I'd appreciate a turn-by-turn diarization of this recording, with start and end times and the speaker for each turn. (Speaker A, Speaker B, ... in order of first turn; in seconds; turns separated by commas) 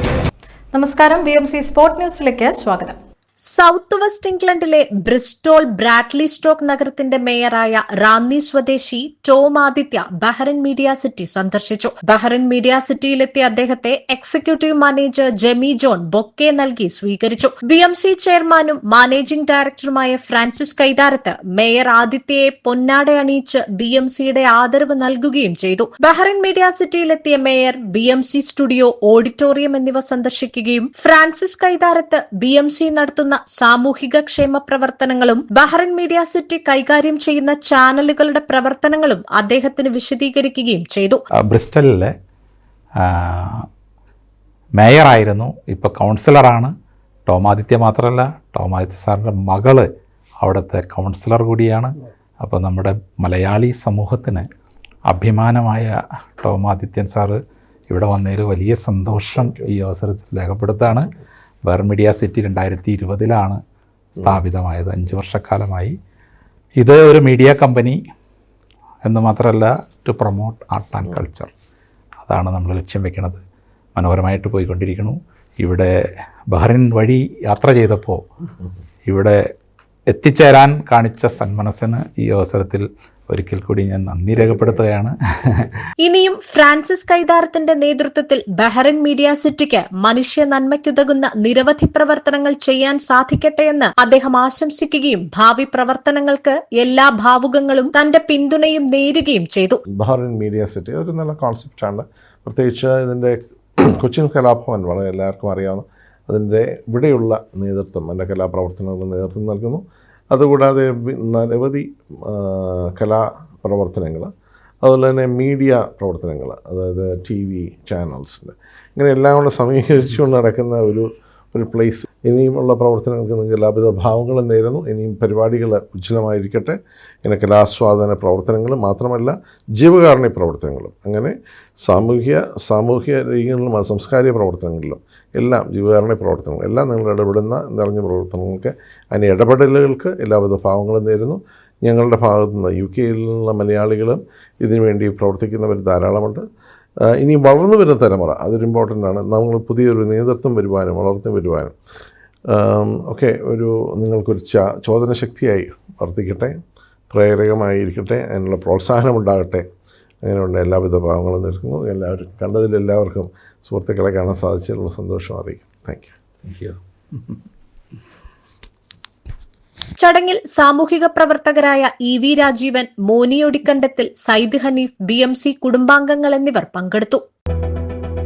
Speaker A: 0.7-2.9, Speaker B: 3.4-41.2, Speaker C: 41.5-42.1, Speaker C: 43.0-43.6, Speaker C: 44.8-46.7, Speaker C: 47.3-49.9, Speaker C: 50.4-54.5, Speaker C: 55.1-57.4, Speaker C: 57.9-61.1, Speaker C: 61.6-63.6, Speaker C: 64.1-65.9, Speaker C: 66.8-68.0, Speaker C: 69.0-71.5, Speaker C: 72.2-73.4, Speaker C: 73.9-75.9, Speaker C: 76.5-78.2, Speaker C: 79.0-79.4, Speaker C: 80.1-85.7, Speaker D: 84.3-84.8, Speaker B: 86.0-99.8, Speaker D: 99.9-114.3, Speaker D: 114.8-146.4, Speaker D: 147.0-151.7, Speaker D: 152.5-156.6, Speaker D: 157.1-159.7, Speaker D: 160.2-166.1, Speaker C: 166.4-166.8, Speaker B: 170.0-177.2